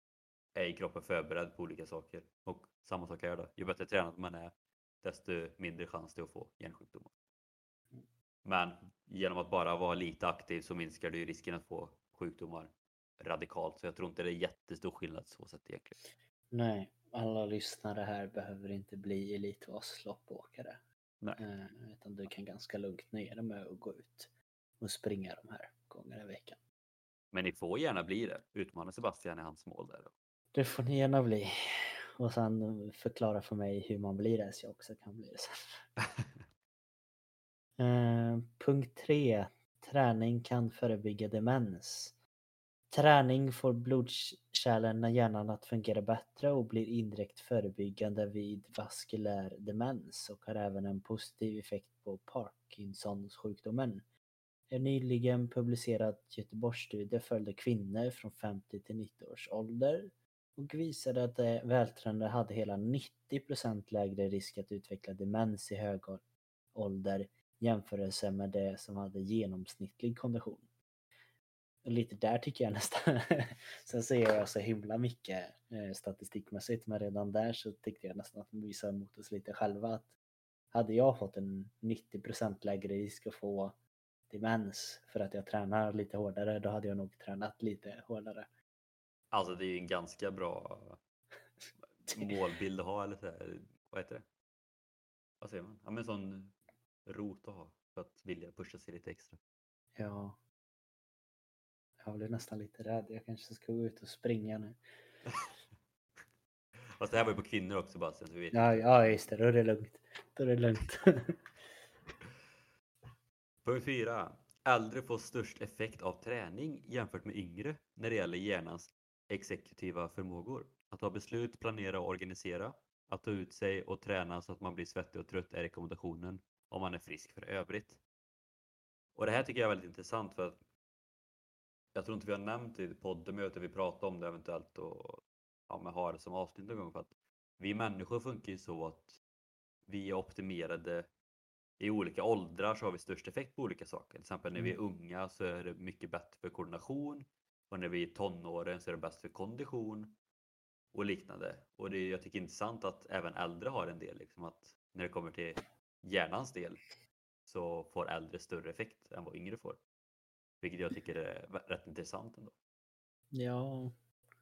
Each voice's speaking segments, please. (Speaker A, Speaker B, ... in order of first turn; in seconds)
Speaker A: 0.6-7.1, 8.4-16.0, 27.3-30.1, 36.2-36.4, 89.3-91.0, 92.0-94.3, 95.4-99.4, 107.0-109.0, 113.6-128.0, 129.1-130.6, 131.9-139.2, 139.9-141.1, 141.8-150.2, 150.9-156.8, 157.4-159.8, 160.6-162.5
Speaker B: 16.5-20.8, 21.4-26.6, 30.5-31.5, 32.2-35.8, 37.8-42.2, 42.9-54.0, 54.7-66.2, 66.7-70.7, 71.8-80.2, 80.7-88.5, 92.1-92.3, 99.9-100.4, 102.0-104.8, 108.5-111.4, 163.3-163.9